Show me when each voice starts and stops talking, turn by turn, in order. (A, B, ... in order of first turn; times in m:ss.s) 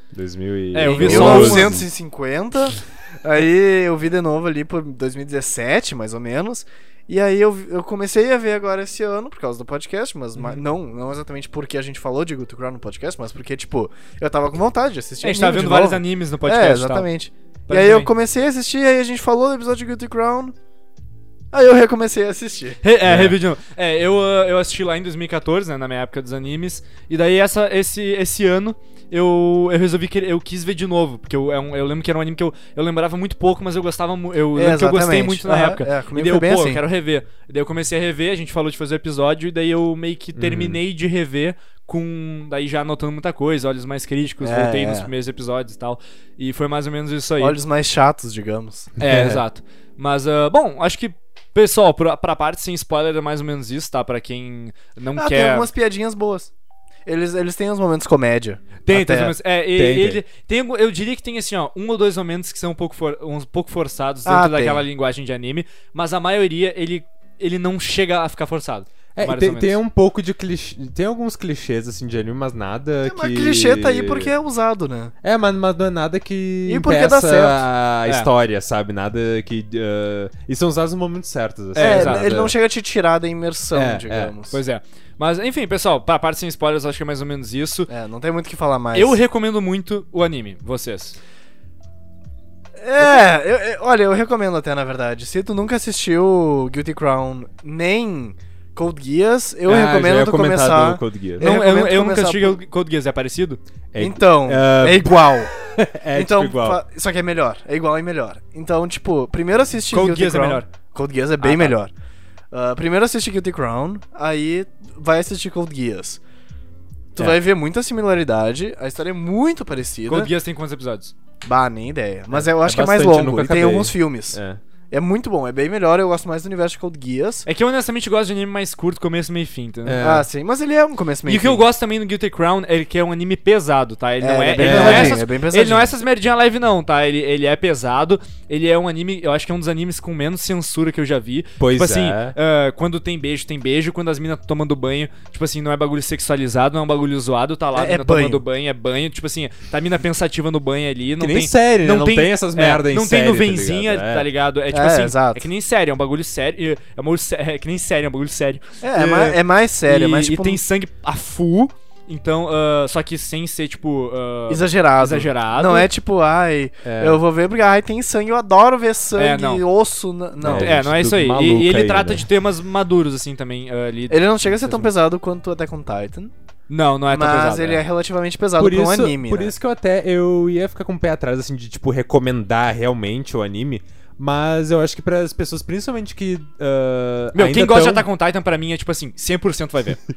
0:00.1-0:01.9 A
0:00.7-0:01.8 B
0:00.8-0:20.5 C
0:15.2-0:17.1 B
0:17.7-0:18.1 B
0:21.5-0:22.8 C
0:22.8-0:47.6 B
0:23.1-0:23.4 A
0:34.6-0:36.8 C
0:40.4-0:40.8 A
0:44.4-0:45.1 C
0:47.4-0:48.9 C
0:49.0-0:49.4 A
0:49.0-0:55.7 B
0:55.2-0:56.5 C
0:57.1-0:59.4 C
0:58.8-1:09.8 B
0:59.7-1:00.2 A
1:04.2-1:04.8 C
1:09.2-1:14.3 A
1:13.0-1:15.1 C
1:15.2-1:22.6 A
1:16.7-1:17.6 C
1:21.7-1:22.3 B
1:21.8-1:24.6 C
1:23.7-1:24.3 A
1:24.5-1:27.9 B
1:27.9-1:29.2 C
1:28.9-1:31.2 B
1:32.8-1:42.6 C
1:39.7-1:41.5 A
1:41.4-1:43.6 B
1:43.9-1:46.8 A
1:44.0-1:45.5 C
1:46.1-1:51.9 C
1:49.9-1:50.7 B
1:51.4-1:51.8 B
1:52.5-1:56.2 C
1:57.2-2:00.3 C
2:00.1-2:01.1 B
2:01.4-2:04.4 C
2:02.3-2:04.6 A
2:04.9-2:07.5 C
2:07.5-2:10.0 B
2:09.9-2:10.3 A
2:10.0-2:11.7 C
2:11.3-2:45.9 B
2:14.2-2:15.9 C
2:14.6-2:15.2 A
2:21.6-2:22.4 A
2:27.8-2:28.4 C
2:31.2-2:34.3 A
2:34.7-2:35.5 C
2:38.8-2:40.6 C
2:44.5-2:50.8 C
2:46.8-2:47.2 A
2:49.2-2:49.6 B
2:50.4-2:52.3 A
2:50.5-2:54.9 B
2:54.1-2:56.3 C
2:56.7-2:57.8 B
2:57.1-2:59.5 C
2:58.6-3:08.1 A
3:07.3-3:10.0 B